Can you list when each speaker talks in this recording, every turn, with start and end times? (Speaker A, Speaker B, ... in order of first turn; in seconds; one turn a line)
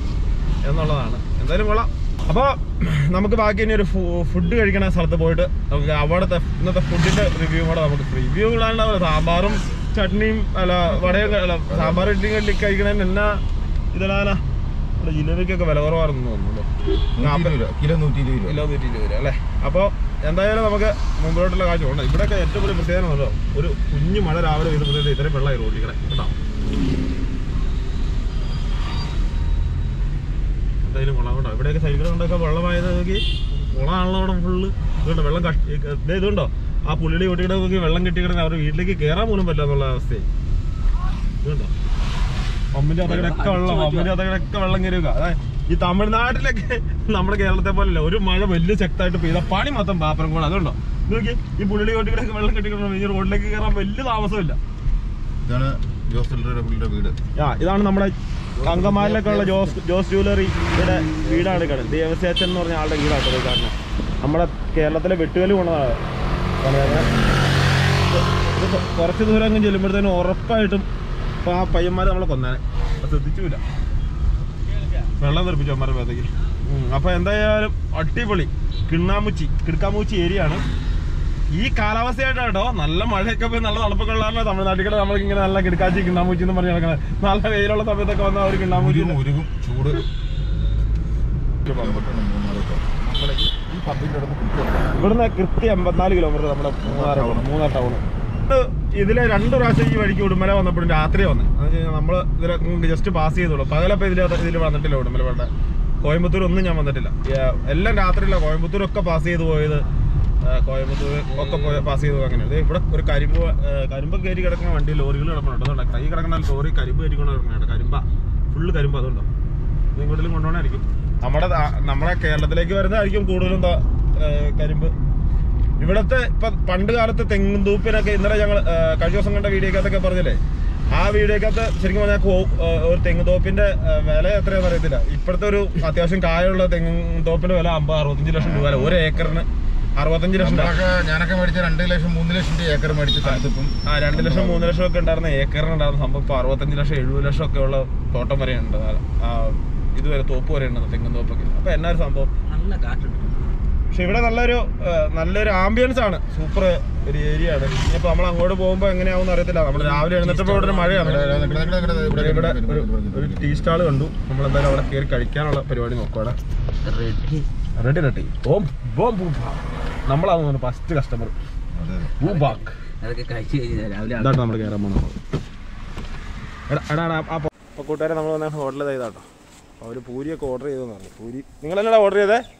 Speaker A: 0.6-13.4
Speaker B: 10.9-12.1
Speaker A: 13.9-14.4
Speaker A: 15.0-17.6
Speaker B: 17.2-18.6
Speaker A: 18.5-26.3
Speaker A: 30.8-40.3
Speaker A: 41.4-41.7
Speaker A: 42.7-54.6
Speaker C: 43.0-44.1
Speaker B: 55.5-57.1
Speaker A: 57.4-66.0
Speaker C: 58.6-59.7
Speaker A: 66.6-67.1
Speaker A: 68.1-70.9
Speaker A: 71.4-73.6
Speaker A: 75.1-80.6
Speaker A: 81.5-89.2
Speaker B: 88.7-90.0
Speaker A: 91.6-92.1
Speaker B: 91.7-93.0
Speaker A: 93.1-94.1
Speaker B: 94.0-94.9
Speaker A: 94.8-105.5
Speaker B: 96.8-97.5
Speaker A: 106.0-109.8
Speaker A: 110.4-119.3
Speaker A: 119.9-124.9
Speaker A: 125.8-140.8
Speaker B: 138.4-139.4
Speaker B: 140.4-144.8
Speaker A: 143.2-152.3
Speaker C: 152.4-153.5
Speaker A: 153.9-161.3
Speaker C: 159.7-161.4
Speaker B: 160.9-163.9
Speaker A: 162.1-166.4
Speaker C: 166.8-167.5
Speaker A: 167.8-171.4
Speaker B: 171.7-172.2
Speaker A: 172.2-172.8
Speaker C: 172.2-174.7
Speaker A: 174.2-175.2
Speaker A: 176.7-179.2
Speaker A: 179.8-182.4